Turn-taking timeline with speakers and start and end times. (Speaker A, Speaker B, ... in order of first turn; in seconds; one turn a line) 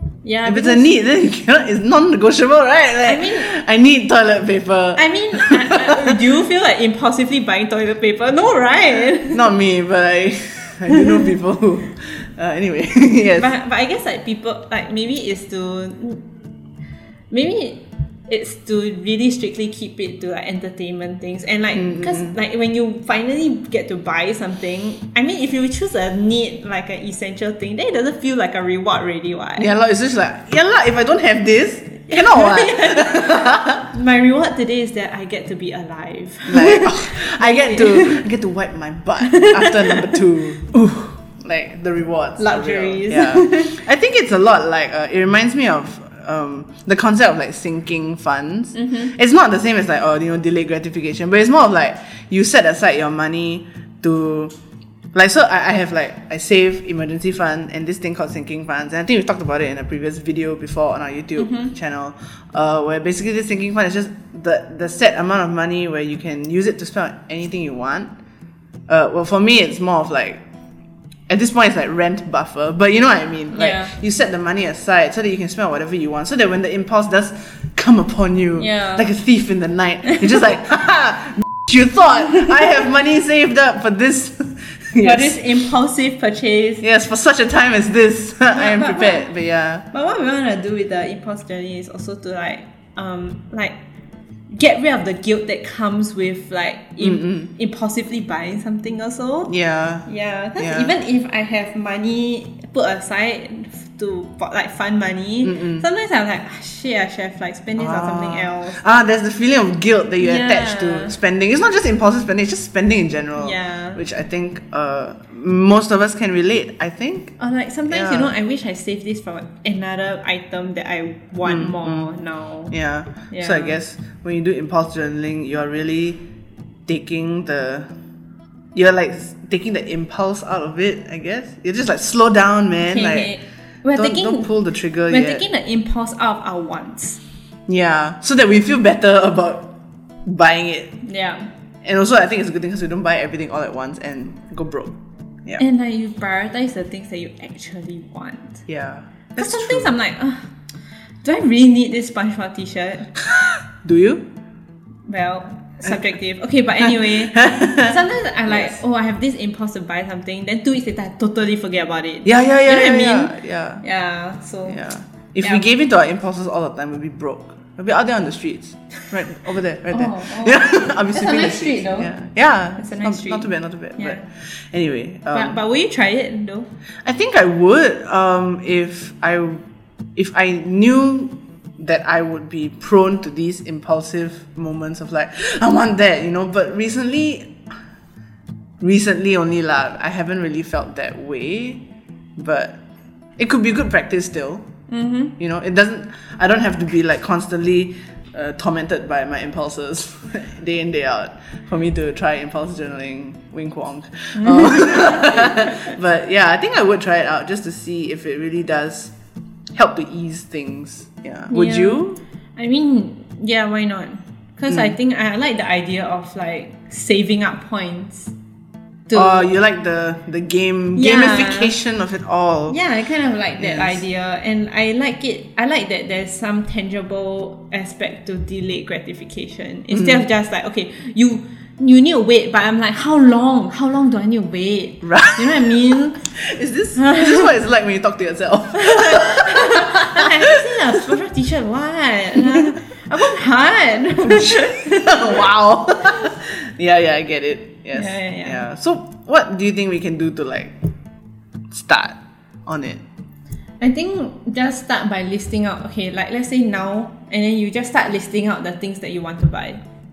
Speaker A: 0.2-1.0
Speaker B: 0.5-6.2
Speaker A: 3.0-3.5
Speaker A: 5.0-9.4
Speaker B: 9.3-13.5
Speaker A: 13.4-16.2
Speaker A: 17.3-29.7
Speaker B: 21.8-22.3
Speaker B: 29.6-33.8
Speaker A: 32.1-38.2
Speaker B: 36.5-54.5
Speaker A: 39.3-40.2
Speaker A: 42.4-43.8
Speaker A: 48.8-49.1
Speaker B: 55.1-68.1
Speaker A: 61.4-61.7
Speaker B: 68.9-70.4
Speaker B: 71.3-85.5
Speaker A: 73.5-73.9
Speaker A: 78.6-79.1
Speaker A: 85.0-86.8
Speaker B: 86.8-89.9
Speaker A: 88.5-89.3
Speaker A: 89.9-93.8
Speaker A: 94.5-99.5
Speaker B: 97.0-97.5
Speaker B: 99.5-100.1
Speaker A: 100.1-108.8
Speaker B: 100.6-100.9
Speaker B: 105.5-105.8
Speaker B: 107.8-117.4
Speaker A: 110.2-111.2
Speaker A: 113.4-114.0
Speaker A: 117.4-122.7
Speaker B: 117.9-118.3
Speaker B: 121.4-122.1
Speaker B: 122.7-126.2
Speaker A: 123.3-123.8
Speaker B: 126.9-127.9
Speaker B: 128.8-133.3
Speaker A: 132.8-134.5
Speaker B: 133.9-135.4
Speaker A: 135.1-137.2
Speaker B: 137.7-139.7
Speaker B: 140.3-140.9
Speaker A: 141.0-141.5
Speaker B: 141.8-145.6
Speaker A: 145.6-148.7
Speaker B: 148.7-149.9
Speaker A: 149.4-150.5
Speaker A: 151.2-153.1
Speaker B: 153.2-154.3
Speaker A: 155.1-164.8
Speaker B: 156.8-158.0
Speaker B: 158.5-158.8
Speaker B: 162.2-163.8
Speaker B: 164.7-175.6
Speaker A: 169.9-172.1
Speaker A: 172.8-174.2
Speaker A: 175.3-176.7
Speaker B: 177.1-179.6
Speaker B: 180.2-187.6
Speaker B: 188.8-191.8
Speaker B: 192.4-192.8
Speaker B: 193.4-194.7
Speaker A: 194.9-195.4
Speaker B: 195.4-209.1
Speaker A: 204.3-205.9
Speaker B: 209.8-212.2
Speaker A: 211.5-218.3
Speaker B: 214.7-214.9
Speaker A: 219.1-219.5
Speaker B: 219.1-222.8
Speaker A: 221.0-221.8
Speaker A: 222.7-236.2
Speaker B: 223.6-224.0
Speaker B: 229.9-230.2
Speaker B: 235.1-235.8
Speaker B: 236.4-240.4
Speaker A: 237.0-237.5
Speaker A: 238.7-245.4
Speaker B: 244.2-250.7
Speaker A: 247.9-248.6
Speaker B: 251.7-253.0
Speaker A: 253.8-259.8